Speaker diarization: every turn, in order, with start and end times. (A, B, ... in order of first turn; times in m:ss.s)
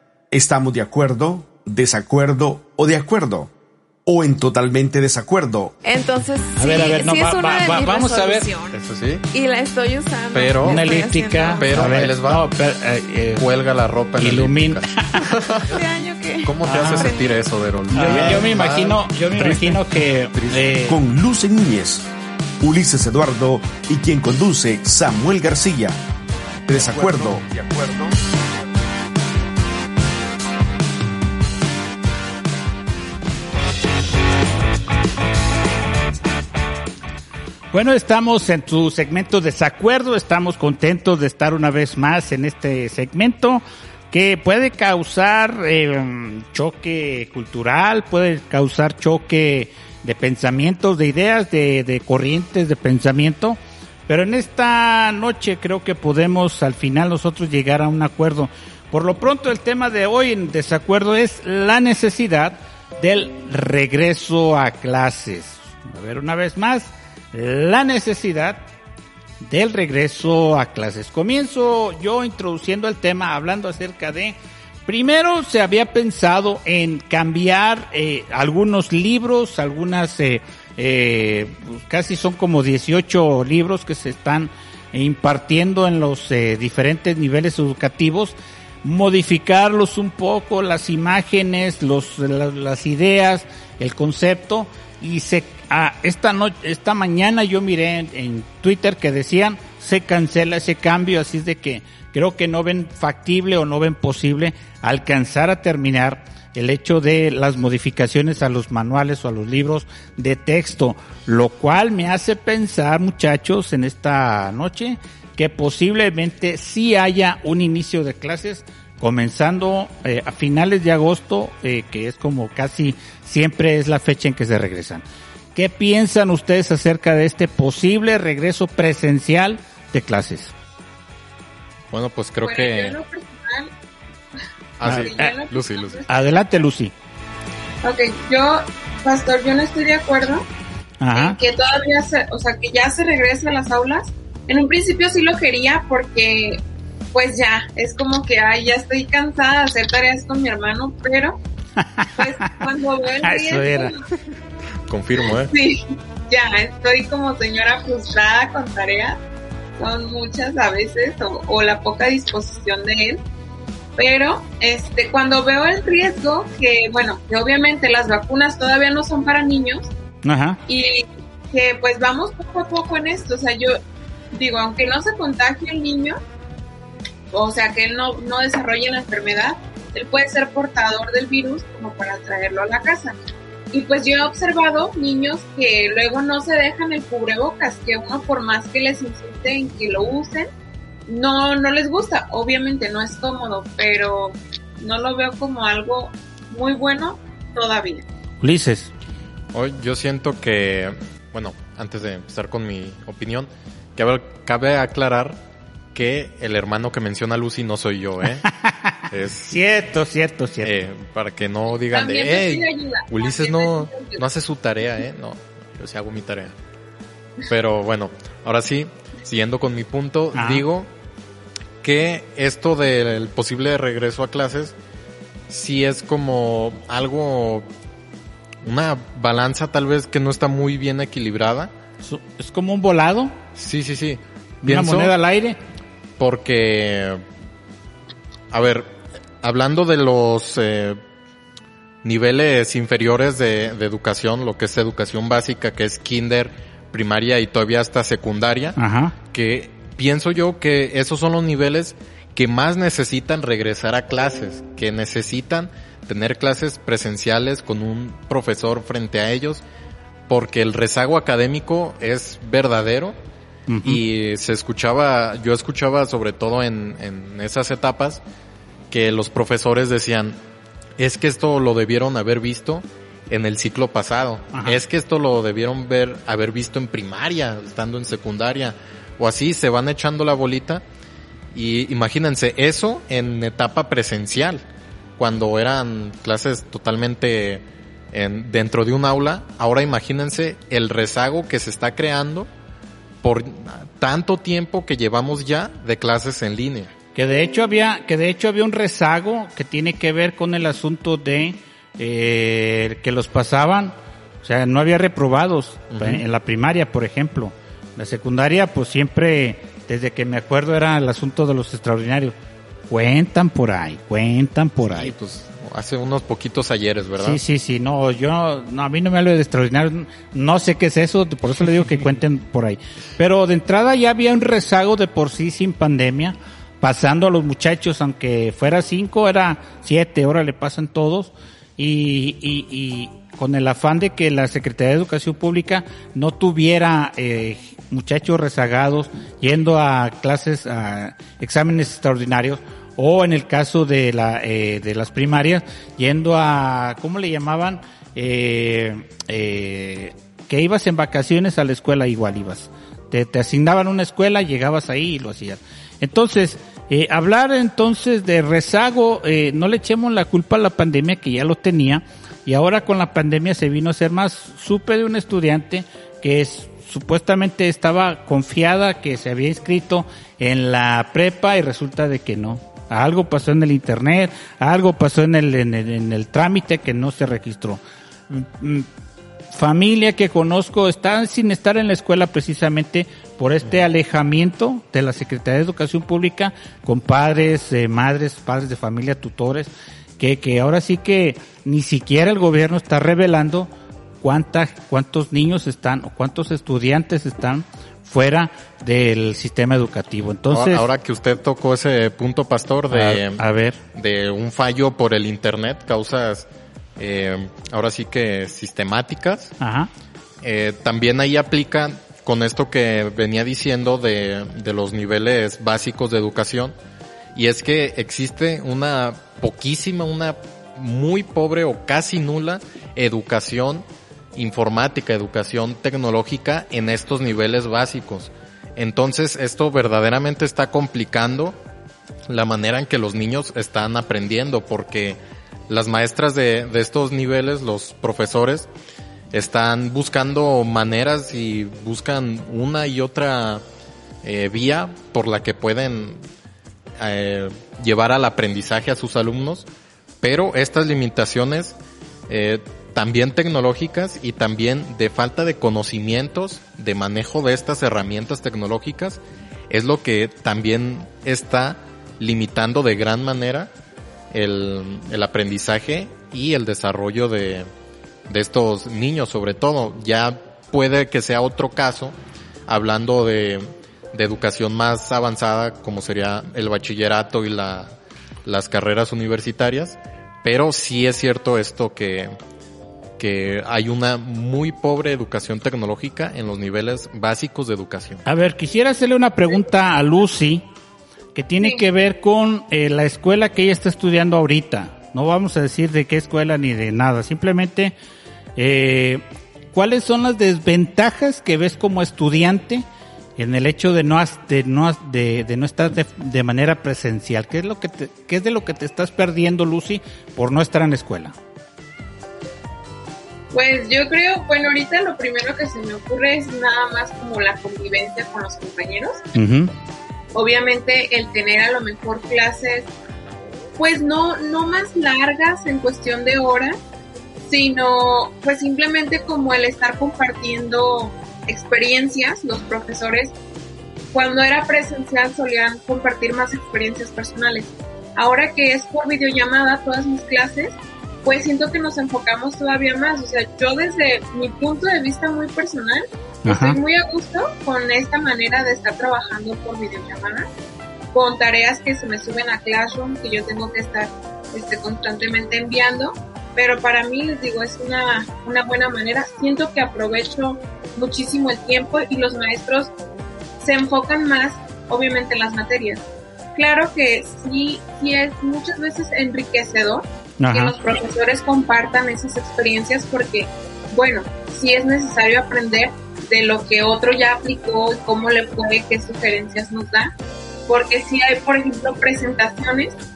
0:00.3-0:03.5 A
0:04.0-0:05.7 A
0:05.8-0:08.8 B
0:06.6-0:08.5 C
0:08.7-0:09.2 D
0:09.3-0:12.1 B
0:10.3-0:10.8 D
0:10.6-0:13.5 C
0:11.6-0:12.5 D
0:13.4-0:15.6 D
0:14.2-0:15.3 C
0:15.7-0:17.5 B
0:16.4-0:19.8 D
0:16.6-0:17.1 C
0:17.9-0:21.0 C
0:18.0-0:18.4 A
0:20.4-0:20.6 D
0:20.8-0:22.0 A
0:22.6-0:26.0 A
0:26.7-0:28.1 A
0:37.7-1:08.6 C
1:09.4-2:10.5 C
2:11.9-2:13.0 D
2:12.4-2:13.7 E
2:14.8-2:16.0 D
2:14.8-2:16.4 E
2:14.8-2:15.3 C
2:16.1-2:16.9 C
2:17.8-2:20.4 E
2:21.0-2:21.4 C
2:21.1-2:26.6 E
2:27.1-2:31.4 E
2:31.8-2:32.2 C
2:32.2-2:34.0 E
2:33.2-2:33.9 C
2:34.9-2:35.5 D
2:35.3-2:35.8 E
2:36.3-2:39.2 E
2:39.8-2:43.2 E
2:44.0-2:49.9 E
2:50.2-2:50.6 C
2:50.7-2:53.7 E
2:54.3-2:56.2 E
2:57.3-3:03.2 E
3:03.7-3:10.5 E
3:11.1-3:18.0 E
3:18.4-3:18.9 C
3:19.5-3:25.4 D
3:25.9-3:28.5 D
3:28.6-3:30.8 C
3:29.1-3:29.6 D
3:30.6-3:36.5 D
3:31.9-3:34.2 E
3:37.4-3:40.9 D
3:40.3-3:40.6 C
3:41.8-3:44.7 D
3:45.5-3:47.6 D
3:48.6-3:51.7 D
3:52.0-3:53.3 C
3:53.6-3:55.1 D
3:54.6-3:55.6 C
3:56.2-3:57.2 D
3:58.5-3:58.9 D
3:59.4-4:01.0 D
4:02.0-4:08.8 D
4:08.8-4:09.2 C
4:09.3-4:19.6 D
4:20.3-4:23.2 D
4:23.7-4:24.0 C
4:23.8-4:28.2 D
4:28.9-4:30.4 D
4:31.0-4:40.8 D
4:34.5-4:34.8 C
4:41.5-4:44.6 D
4:45.2-4:52.5 D
4:53.2-4:56.9 D
4:57.1-5:12.3 C
5:05.9-5:06.2 D
5:12.9-5:15.1 C
5:14.8-5:17.4 D
5:17.2-6:18.9 C
6:19.5-6:40.8 C
6:40.5-6:43.4 D
6:42.9-6:43.8 C
6:43.9-6:49.5 D
6:49.6-6:49.9 C
6:50.4-6:56.7 D
6:57.3-7:11.6 D
7:12.3-7:18.7 D
7:19.3-7:23.6 D
7:24.2-7:26.2 D
7:27.0-7:29.7 D
7:30.2-7:31.8 D
7:32.3-7:43.7 D
7:44.3-7:47.7 D
7:48.3-7:52.2 D
7:52.7-7:57.9 D
7:58.4-8:02.3 D
8:03.2-8:08.2 D
8:08.2-8:10.6 C
8:11.3-8:17.9 C
8:18.6-8:22.8 C
8:23.4-8:31.3 C
8:33.5-8:39.2 E
8:39.3-8:39.7 C
8:40.3-8:42.9 E
8:43.8-8:46.7 E
8:47.4-8:53.3 E
8:54.1-9:10.5 E
9:06.4-9:06.8 C
9:11.1-9:22.9 E
9:23.6-9:40.1 E
9:30.4-9:30.8 C
9:40.7-9:42.9 E